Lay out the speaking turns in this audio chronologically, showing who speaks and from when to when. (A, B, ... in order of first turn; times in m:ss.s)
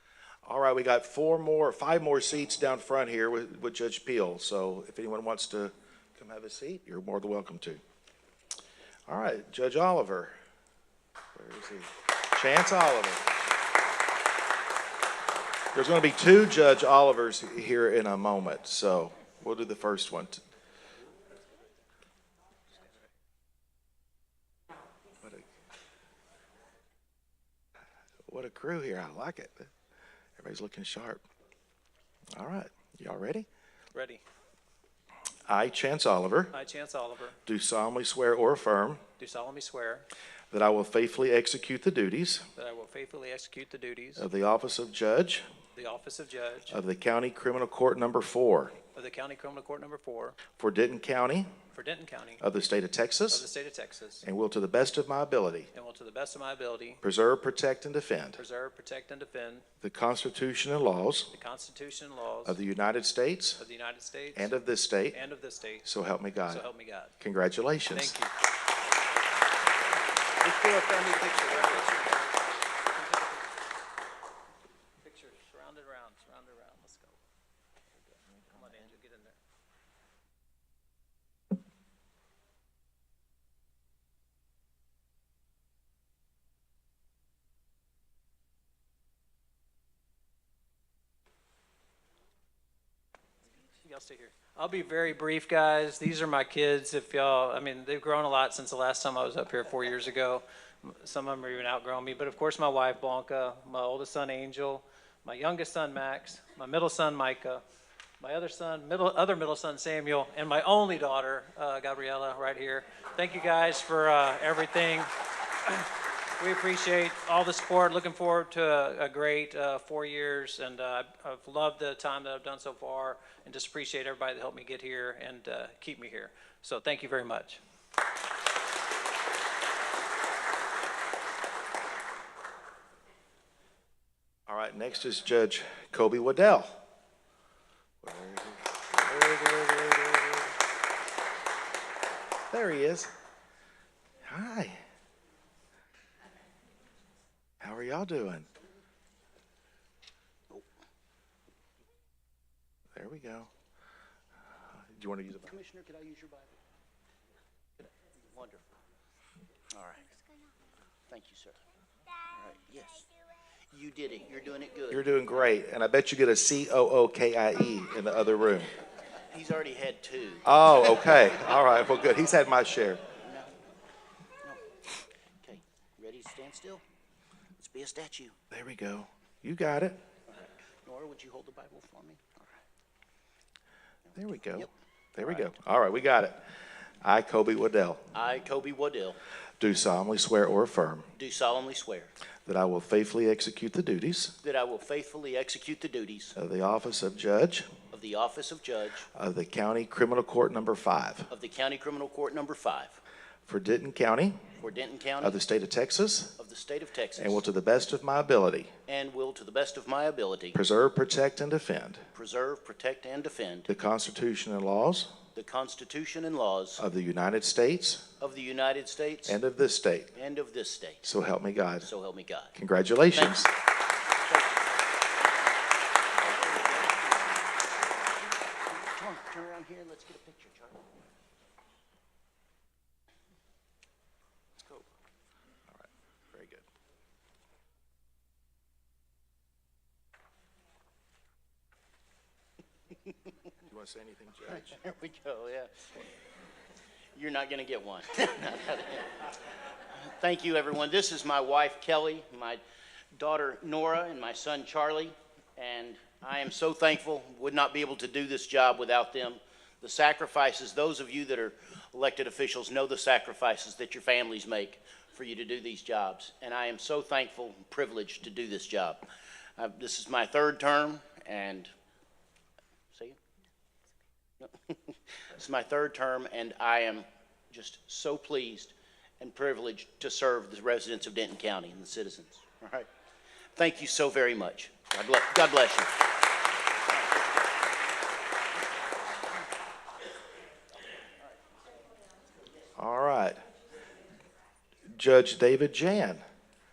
0:00.4-0:07.8 A
0:09.1-0:10.4 A
0:11.4-0:13.5 A
0:15.7-0:20.4 A
0:28.3-0:29.7 A
0:30.4-0:31.2 A
0:32.3-0:33.5 A
0:33.9-0:34.2 B
0:35.5-0:36.6 A
0:36.5-0:37.4 B
0:37.5-0:39.0 A
0:39.2-0:40.1 B
0:40.5-0:42.5 A
0:42.6-0:44.3 B
0:44.2-0:45.5 A
0:45.8-0:46.8 B
0:46.7-0:48.8 A
0:49.0-0:50.4 B
0:50.6-0:51.5 A
0:51.7-0:52.4 B
0:52.4-0:53.4 A
0:53.3-0:54.3 B
0:54.2-0:55.7 A
0:55.7-0:57.0 B
0:57.0-0:58.4 A
0:58.4-0:59.6 B
0:59.8-1:01.3 A
1:01.3-1:02.6 B
1:02.4-1:03.6 A
1:03.6-1:04.5 B
1:04.4-1:05.2 A
1:05.1-1:05.9 B
1:05.8-1:06.7 A
1:06.5-1:07.1 B
1:07.2-1:08.1 A
1:07.9-1:08.3 B
1:10.4-1:12.4 B
1:12.9-1:13.5 B
1:15.0-1:17.2 B
1:18.5-1:19.4 B
1:33.8-1:47.6 B
1:48.2-1:55.1 B
1:56.4-2:07.6 B
2:14.5-2:16.8 A
2:18.0-2:20.6 A
2:22.5-2:23.1 A
2:24.2-2:24.8 A
2:27.6-2:28.5 A
2:33.0-2:33.5 A
2:34.6-2:35.6 A
2:35.4-2:36.6 C
2:37.8-2:38.8 C
2:39.7-2:40.2 C
2:41.1-2:41.6 C
2:42.2-2:43.1 C
2:43.7-2:45.1 C
2:44.9-2:48.7 A
2:49.3-2:50.5 C
2:50.4-2:53.0 A
2:53.2-2:53.5 C
2:55.4-2:56.8 C
2:57.6-2:58.4 C
2:58.5-3:00.0 A
3:00.3-3:02.6 C
3:04.1-3:04.7 C
3:04.2-3:06.4 A
3:05.2-3:05.6 C
3:07.0-3:08.0 A
3:08.1-3:09.2 C
3:09.6-3:11.1 A
3:11.2-3:12.1 C
3:12.4-3:14.4 A
3:14.4-3:16.4 C
3:16.4-3:17.7 A
3:17.9-3:19.1 C
3:19.2-3:21.3 A
3:21.3-3:23.0 C
3:23.5-3:24.4 A
3:24.6-3:25.4 C
3:25.2-3:26.3 A
3:26.4-3:27.4 C
3:27.2-3:28.7 A
3:28.9-3:30.6 C
3:30.5-3:32.0 A
3:32.1-3:33.7 C
3:33.7-3:35.1 A
3:35.3-3:36.8 C
3:36.8-3:38.0 A
3:38.2-3:39.4 C
3:39.3-3:40.1 A
3:40.1-3:41.1 C
3:41.0-3:41.9 A
3:41.8-3:42.6 C
3:42.6-3:43.5 A
3:43.1-3:43.5 C
3:44.2-3:44.8 C
3:46.2-3:47.4 C
3:48.6-3:50.8 C
3:54.6-3:54.9 C
3:55.7-3:56.7 A
4:03.6-4:04.8 A
4:04.5-4:06.0 C
4:07.2-4:09.2 C
4:09.9-4:12.6 C
4:13.1-4:29.0 C
4:29.6-4:31.7 C
4:32.9-4:33.2 C
4:34.4-4:42.9 C
4:43.5-4:46.0 C
4:46.9-4:47.3 C
4:52.8-4:53.4 A
4:54.9-4:56.2 A